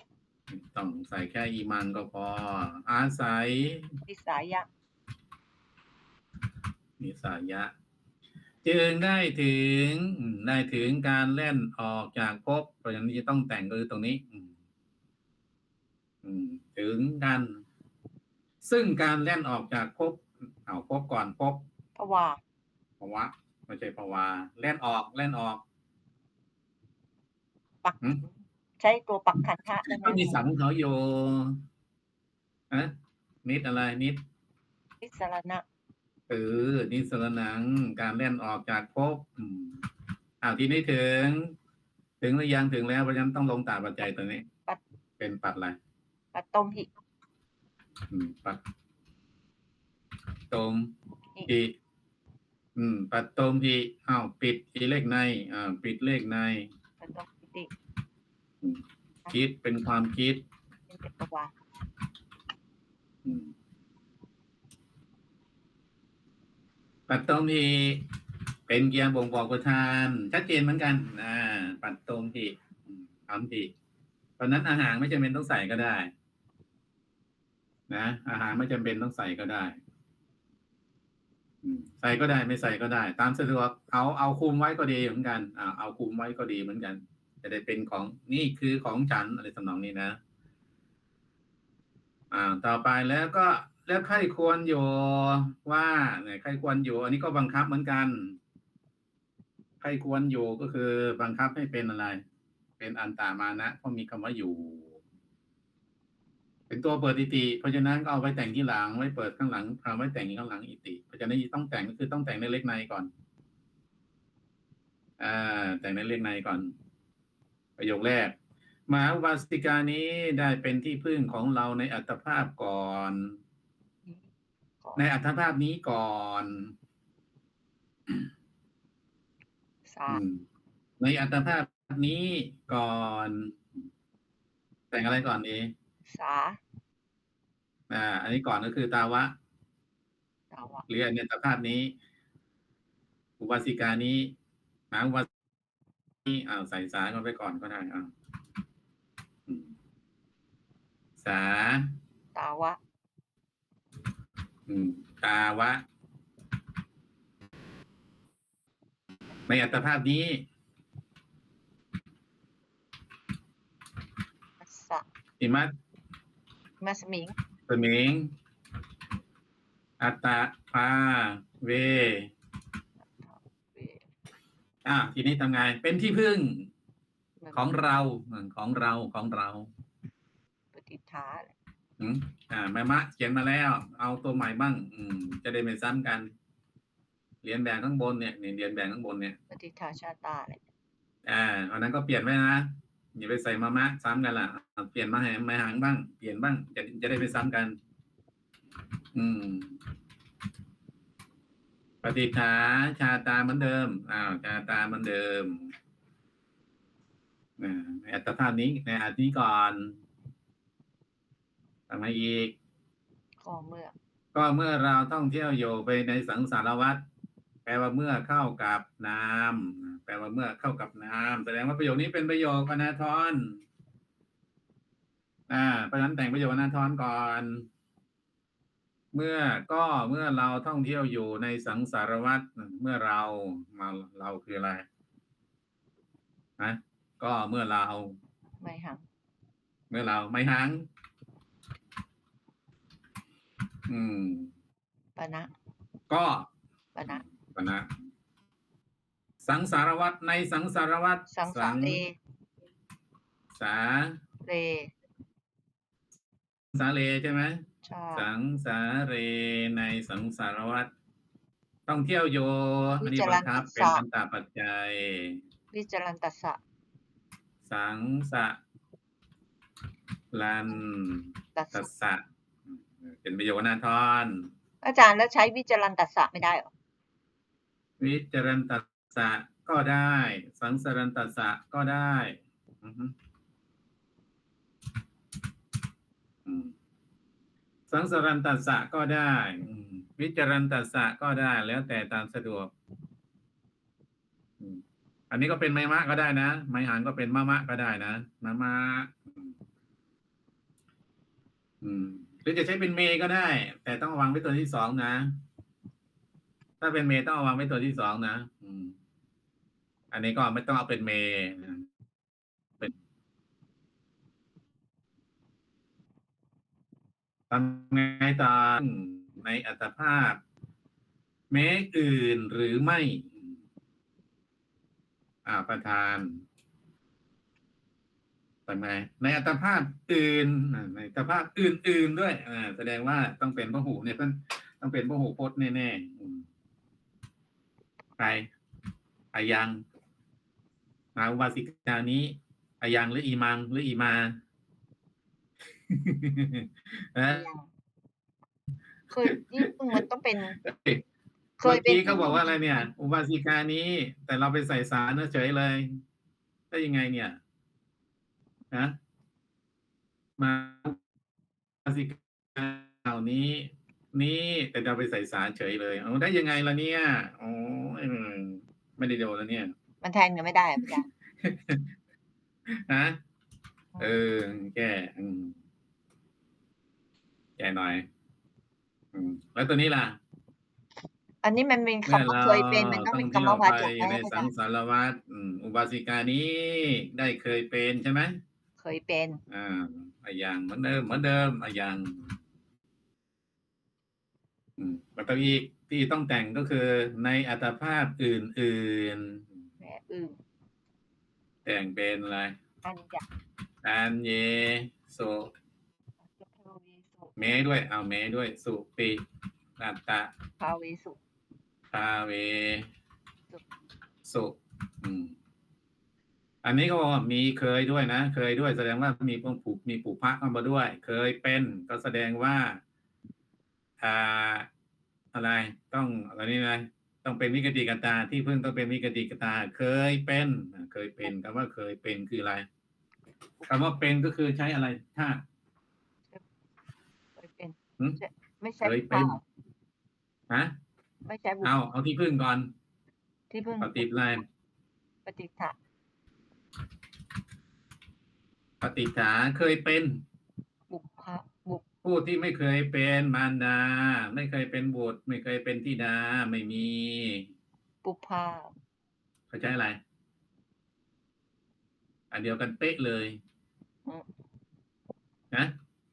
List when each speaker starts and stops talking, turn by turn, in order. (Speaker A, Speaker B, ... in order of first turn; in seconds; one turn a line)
Speaker A: 0.5-3.9
Speaker B: 4.1-4.7
Speaker A: 7.0-7.7
Speaker A: 8.6-14.5
Speaker A: 16.2-17.6
Speaker A: 18.6-21.6
Speaker B: 22.0-22.4
Speaker A: 23.0-25.6
Speaker B: 27.8-30.4
Speaker A: 29.8-31.6
Speaker A: 33.5-34.2
Speaker B: 35.0-35.6
Speaker A: 36.3-39.8
Speaker A: 40.4-41.5
Speaker A: 42.2-44.5
Speaker A: 45.2-45.8
Speaker B: 46.3-46.9
Speaker A: 48.1-48.6
Speaker A: 50.5-50.9
Speaker A: 51.5-51.7
Speaker A: 52.8-56.7
Speaker B: 57.0-57.7
Speaker A: 58.6-60.4
Speaker B: 60.9-61.5
Speaker A: 63.2-63.5
Speaker A: 67.1-68.0
Speaker A: 68.7-73.7
Speaker A: 74.4-76.1
Speaker A: 77.9-79.8
Speaker A: 81.6-90.2
Speaker A: 92.3-98.4
Speaker A: 99.8-102.2
Speaker A: 102.8-105.0
Speaker A: 106.7-113.1
Speaker A: 115.2-116.7
Speaker A: 117.8-118.4
Speaker A: 118.9-123.4
Speaker A: 125.0-126.7
Speaker B: 129.9-130.2
Speaker A: 130.1-130.4
Speaker A: 131.0-133.6
Speaker A: 134.9-135.7
Speaker B: 136.1-136.6
Speaker A: 137.9-139.3
Speaker B: 140.5-140.8
Speaker A: 140.9-141.9
Speaker A: 143.4-144.3
Speaker A: 144.9-145.3
Speaker A: 146.3-148.1
Speaker A: 151.2-151.9
Speaker B: 152.3-152.8
Speaker A: 154.7-155.8
Speaker A: 159.5-160.5
Speaker B: 164.6-165.0
Speaker A: 165.4-165.7
Speaker B: 166.8-167.3
Speaker A: 167.7-168.3
Speaker A: 170.0-172.3
Speaker B: 173.0-174.1
Speaker A: 174.8-176.7
Speaker B: 177.4-177.8
Speaker A: 177.5-179.7
Speaker B: 180.7-181.5
Speaker A: 182.0-186.3
Speaker A: 187.4-189.4
Speaker B: 189.5-190.6
Speaker A: 191.2-197.8
Speaker A: 199.2-199.8
Speaker A: 202.0-205.7
Speaker A: 207.6-210.0
Speaker A: 211.9-212.6
Speaker B: 213.4-213.9
Speaker A: 214.3-217.0
Speaker A: 217.7-223.6
Speaker A: 225.5-227.7
Speaker A: 229.1-234.9
Speaker A: 236.6-238.2
Speaker B: 238.6-239.0
Speaker A: 239.9-240.8
Speaker A: 243.9-244.5
Speaker B: 245.2-245.5
Speaker A: 246.1-246.5
Speaker B: 246.9-247.2
Speaker A: 247.1-247.9
Speaker A: 249.4-252.0
Speaker B: 251.3-252.2
Speaker A: 253.6-254.2
Speaker B: 254.4-254.9
Speaker A: 256.8-260.9
Speaker B: 257.8-258.3
Speaker A: 261.9-265.4
Speaker B: 263.0-264.0
Speaker B: 265.7-266.6
Speaker A: 267.7-268.6
Speaker A: 270.3-274.5
Speaker B: 271.6-271.9
Speaker B: 274.8-276.7
Speaker A: 278.0-283.1
Speaker A: 286.5-286.7
Speaker A: 287.9-292.7
Speaker A: 294.6-299.5
Speaker A: 301.8-305.3
Speaker A: 306.8-308.9
Speaker A: 310.1-311.9
Speaker A: 317.5-320.4
Speaker A: 321.5-323.4
Speaker A: 325.4-326.4
Speaker A: 328.7-336.5
Speaker A: 338.2-338.5
Speaker A: 339.3-339.8
Speaker A: 341.2-344.4
Speaker A: 345.9-347.5
Speaker B: 347.3-347.7
Speaker B: 349.1-350.6
Speaker A: 349.2-350.0
Speaker A: 350.6-351.0
Speaker B: 351.6-352.9
Speaker A: 351.6-356.0
Speaker A: 356.7-357.4
Speaker A: 360.4-361.0
Speaker A: 361.9-369.7
Speaker B: 370.0-371.1
Speaker A: 371.4-371.9
Speaker A: 372.7-373.2
Speaker A: 374.0-375.6
Speaker A: 377.6-378.1
Speaker A: 379.1-380.2
Speaker B: 381.4-384.5
Speaker A: 382.1-388.4
Speaker B: 388.8-389.4
Speaker A: 389.5-392.4
Speaker A: 394.8-399.5
Speaker B: 399.8-400.4
Speaker A: 401.6-402.6
Speaker B: 402.8-403.2
Speaker A: 403.8-405.5
Speaker B: 406.2-407.6
Speaker A: 407.4-409.2
Speaker A: 409.8-410.3
Speaker B: 410.6-411.2
Speaker A: 411.9-412.9
Speaker A: 414.2-415.3
Speaker A: 416.6-422.8
Speaker A: 424.0-424.7
Speaker A: 425.3-432.7
Speaker A: 433.6-435.4
Speaker B: 437.4-439.4
Speaker A: 438.8-439.4
Speaker B: 441.2-441.7
Speaker A: 441.6-442.7
Speaker B: 443.5-444.2
Speaker A: 443.8-444.4
Speaker B: 445.3-445.8
Speaker A: 448.8-450.2
Speaker B: 450.9-451.9
Speaker A: 452.0-457.5
Speaker B: 458.0-458.7
Speaker A: 459.5-460.0
Speaker A: 462.3-463.4